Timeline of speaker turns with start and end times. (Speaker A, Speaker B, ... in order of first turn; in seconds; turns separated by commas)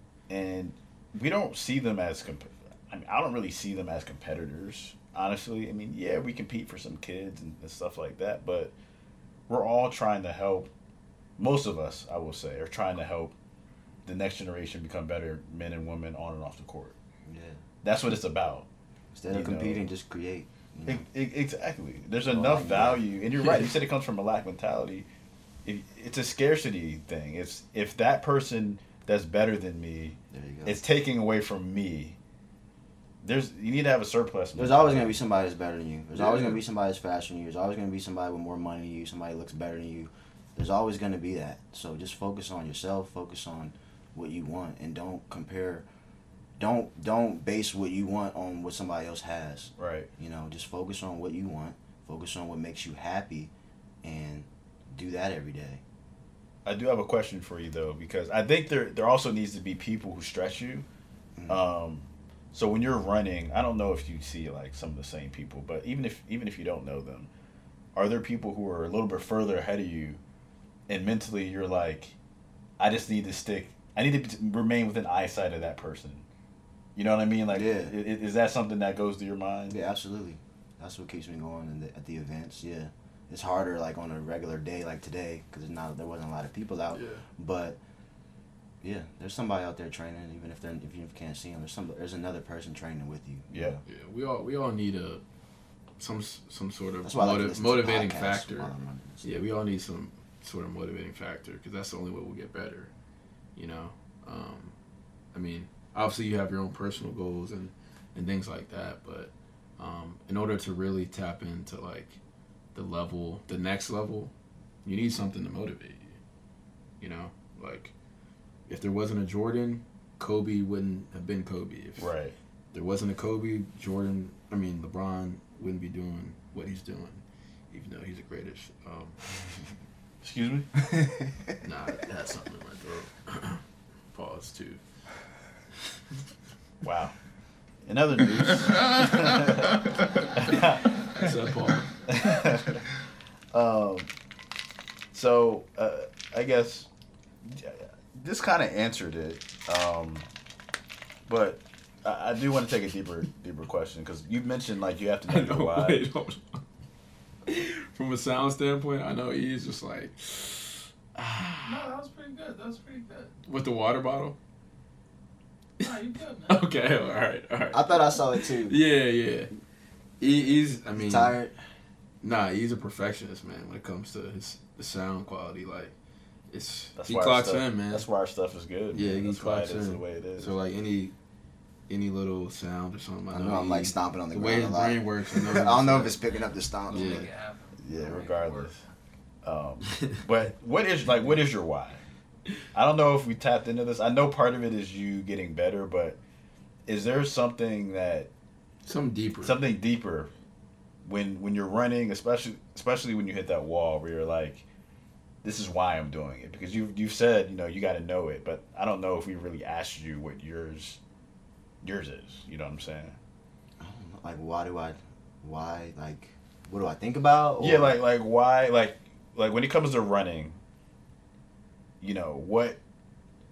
Speaker A: 0.3-8.7, Speaker A: 9.5-10.7, Speaker A: 11.4-13.3, Speaker A: 14.1-16.9, Speaker B: 17.3-17.6, Speaker A: 17.8-18.7, Speaker B: 19.1-21.0, Speaker A: 19.3-19.9, Speaker A: 20.9-25.1, Speaker B: 22.2-23.1, Speaker C: 23.4-23.7, Speaker A: 25.6-32.2, Speaker B: 30.3-30.8, Speaker A: 33.2-35.2, Speaker B: 34.5-45.9, Speaker A: 36.2-36.6, Speaker B: 46.6-53.5, Speaker A: 49.8-50.1, Speaker B: 54.0-55.8, Speaker A: 56.6-60.9, Speaker B: 61.4-61.6, Speaker A: 61.5-67.3, Speaker A: 68.0-70.2, Speaker A: 70.9-72.2, Speaker A: 72.8-76.2, Speaker A: 77.0-79.8, Speaker B: 77.5-78.0, Speaker B: 79.7-87.8, Speaker C: 86.9-87.2, Speaker B: 88.8-93.7, Speaker A: 93.5-93.8, Speaker C: 93.8-95.2, Speaker C: 96.0-98.7, Speaker B: 97.0-99.3, Speaker C: 99.2-102.9, Speaker C: 103.6-104.7, Speaker C: 105.3-112.2, Speaker C: 112.8-114.3, Speaker C: 114.8-116.2, Speaker C: 117.0-117.9, Speaker C: 118.7-122.1, Speaker A: 122.0-122.4, Speaker C: 122.7-129.2, Speaker A: 130.2-130.7, Speaker C: 131.6-134.8, Speaker A: 136.8-137.2, Speaker A: 137.9-139.8, Speaker A: 140.3-141.0, Speaker C: 141.1-141.9, Speaker A: 142.1-142.8, Speaker A: 143.5-144.1, Speaker A: 145.1-146.9, Speaker A: 147.5-150.3, Speaker A: 151.3-156.0, Speaker C: 155.3-156.6, Speaker C: 157.5-161.8, Speaker D: 161.7-163.3, Speaker C: 163.5-164.4, Speaker D: 165.8-166.6, Speaker C: 166.5-169.5, Speaker B: 167.7-168.7, Speaker C: 170.2-171.4, Speaker B: 171.0-171.6, Speaker C: 172.2-175.9, Speaker C: 176.5-178.1, Speaker A: 177.0-180.6, Speaker C: 178.9-181.1, Speaker C: 181.9-186.2, Speaker B: 183.3-187.3, Speaker D: 186.9-188.8, Speaker C: 186.9-187.3, Speaker A: 187.8-188.8, Speaker A: 189.4-192.0, Speaker A: 192.7-196.2, Speaker A: 196.9-198.3, Speaker C: 198.9-199.6, Speaker A: 199.4-200.3, Speaker A: 201.1-204.7, Speaker A: 205.4-211.0, Speaker A: 211.8-213.2, Speaker B: 213.8-218.0, Speaker A: 217.6-220.6, Speaker A: 222.0-222.8